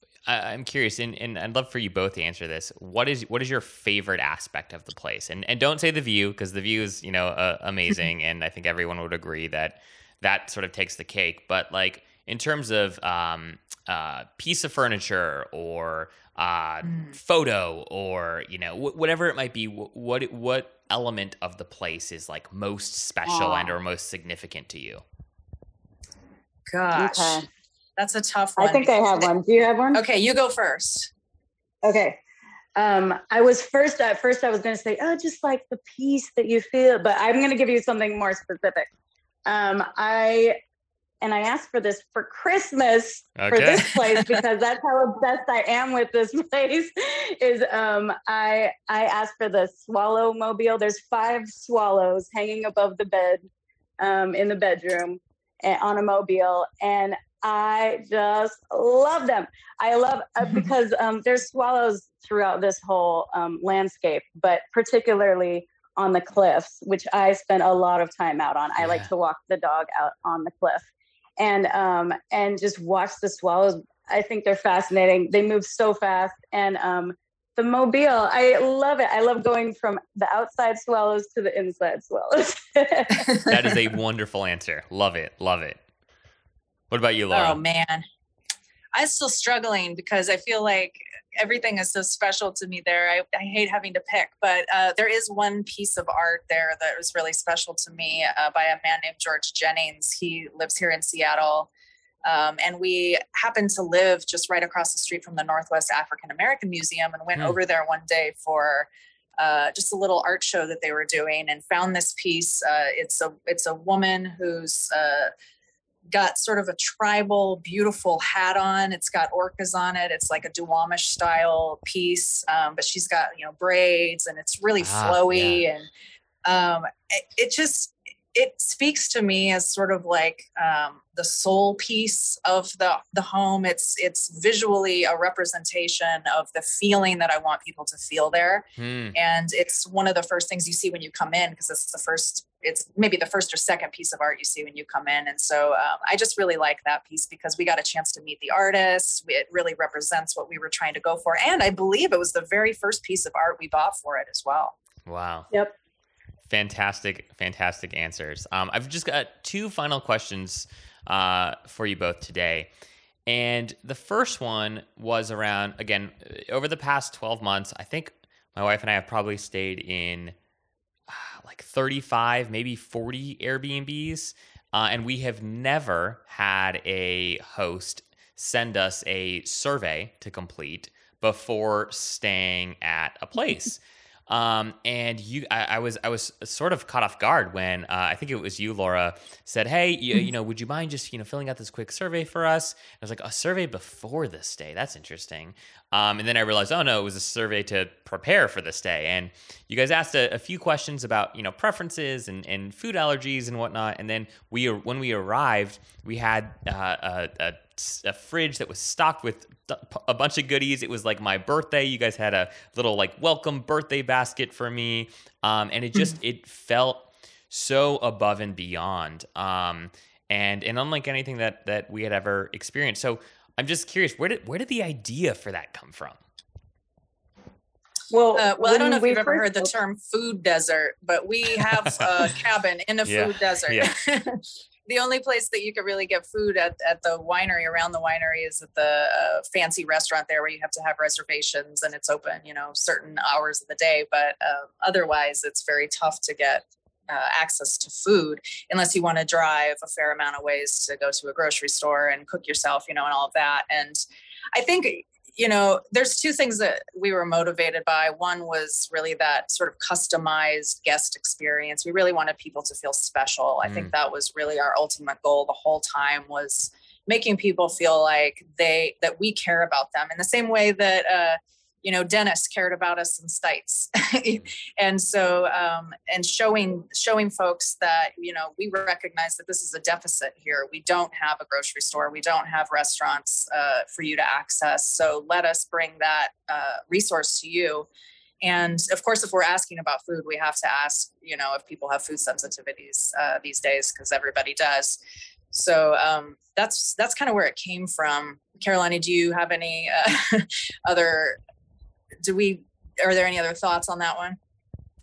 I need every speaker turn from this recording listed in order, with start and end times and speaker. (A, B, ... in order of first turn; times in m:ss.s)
0:00.3-0:25.0 A
0:16.8-0:17.2 B
0:23.2-0:23.8 C
0:26.7-0:27.5 B
0:27.0-0:27.5 C
0:28.0-0:29.3 B
0:28.6-0:30.0 C
0:29.9-0:31.1 B
0:31.8-0:32.2 C
0:32.8-0:38.9 C
0:39.5-0:40.6 C
0:41.2-0:53.5 C
0:43.4-0:44.0 A
0:43.6-0:44.4 B
0:54.0-1:23.3 C
1:08.8-1:09.1 A
1:23.2-1:23.5 B
1:23.4-1:25.8 A
1:26.9-1:27.6 A
1:27.3-1:28.0 B
1:28.9-1:41.7 B
1:42.2-1:55.3 B
1:56.1-2:05.9 B
2:04.8-2:05.6 A
2:06.5-2:34.8 B
2:18.8-2:19.2 A
2:35.1-2:35.5 A
2:36.5-2:42.7 A
2:43.3-2:50.4 A
2:51.1-3:46.2 A
3:48.1-3:49.7 C
3:48.4-4:14.0 B
3:53.1-3:53.9 A
4:14.5-4:47.9 B
4:23.6-4:23.9 A
4:48.4-4:55.0 B
4:55.5-5:01.4 B
5:02.2-5:04.4 B